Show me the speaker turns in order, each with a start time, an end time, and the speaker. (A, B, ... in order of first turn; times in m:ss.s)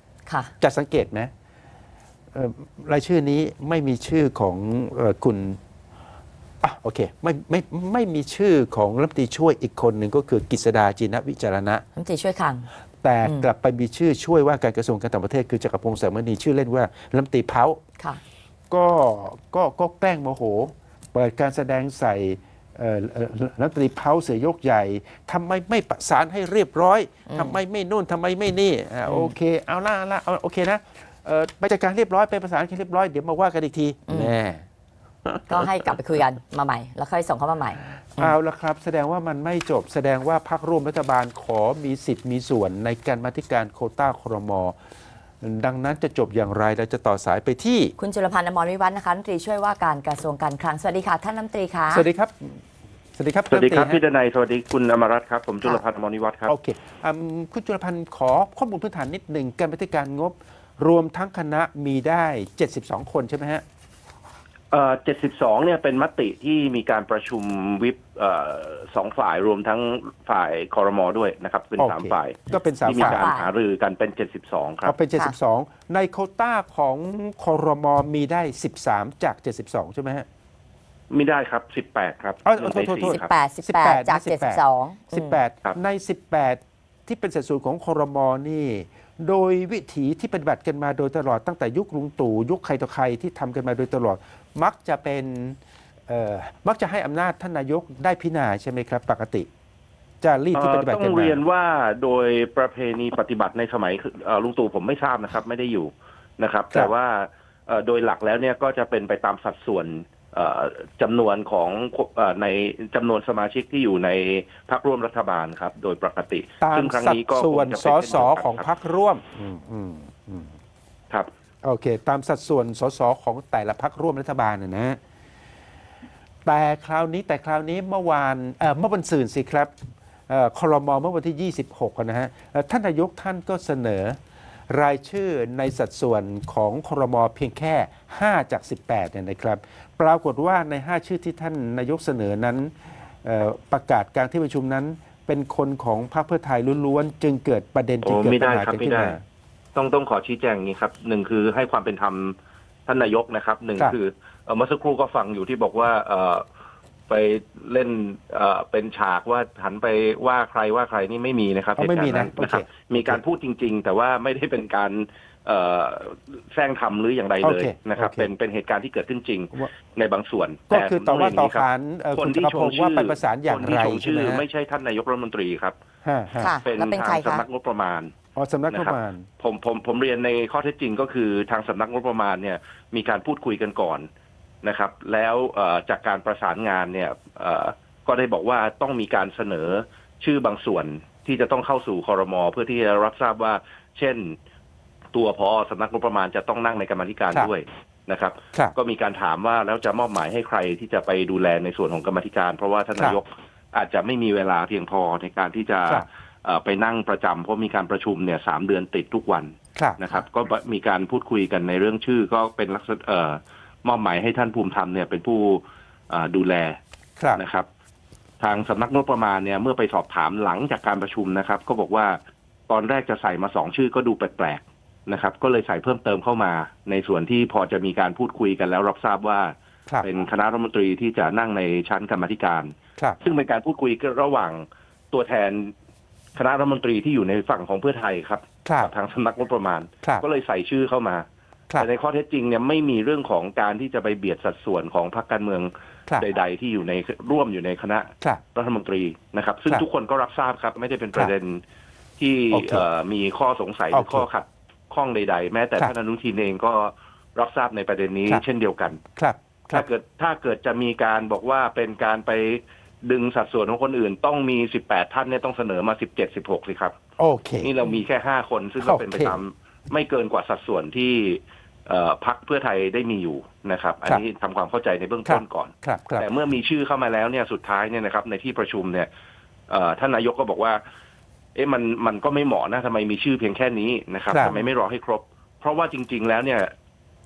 0:00.3-0:00.5 A
0:00.6-0:01.3 B
0:02.3-0:05.6 B
0:06.6-0:11.8 B
0:12.0-0:12.7 A
0:13.0-0:17.8 B
0:13.2-0:13.5 A
0:18.7-0:34.6 B
0:27.3-0:27.6 A
0:29.0-0:29.3 A
0:34.1-0:34.3 A
0:35.2-0:35.9 B
0:35.5-0:38.3 A
0:38.1-0:44.8 B
0:45.4-0:47.9 B
0:48.0-0:52.0 A
0:51.9-0:52.6 B
0:53.2-0:54.0 B
0:53.5-0:56.5 C
0:56.5-1:03.6 B
1:04.7-1:14.9 C
1:11.8-1:13.3 B
1:12.7-1:13.5 A
1:14.8-1:20.2 B
1:21.1-1:23.3 C
1:22.4-1:39.5 B
1:23.0-1:25.4 A
1:40.2-1:41.4 B
1:40.5-1:58.7 C
1:56.6-2:00.5 B
2:01.6-2:05.0 B
2:06.4-2:09.7 B
2:10.3-2:29.2 B
2:28.0-2:29.2 C
2:29.7-2:32.4 C
2:32.9-2:36.4 C
2:37.1-2:55.7 C
2:41.8-2:43.2 B
2:47.4-2:48.3 B
2:50.7-2:54.4 B
2:56.0-2:56.6 B
2:56.4-2:57.4 A
2:56.6-2:58.1 C
2:58.3-2:59.3 B
2:58.7-3:04.0 C
3:04.6-3:14.3 C
3:15.1-3:36.8 C
3:29.8-3:30.0 B
3:37.4-3:37.7 C
3:38.4-3:42.2 C
3:42.7-3:49.5 C
3:50.0-3:55.7 C
3:56.4-4:01.2 C
3:58.6-3:58.9 B
4:01.8-4:11.6 C
4:12.2-4:19.0 C
4:12.5-4:12.8 B
4:13.9-4:14.3 B
4:19.2-4:19.8 B
4:19.7-4:26.9 C
4:27.2-4:27.7 B
4:27.6-4:39.1 C
4:28.8-4:29.4 B
4:35.3-4:36.3 B
4:39.7-4:40.8 C
4:41.6-4:46.7 C
4:44.3-4:44.6 B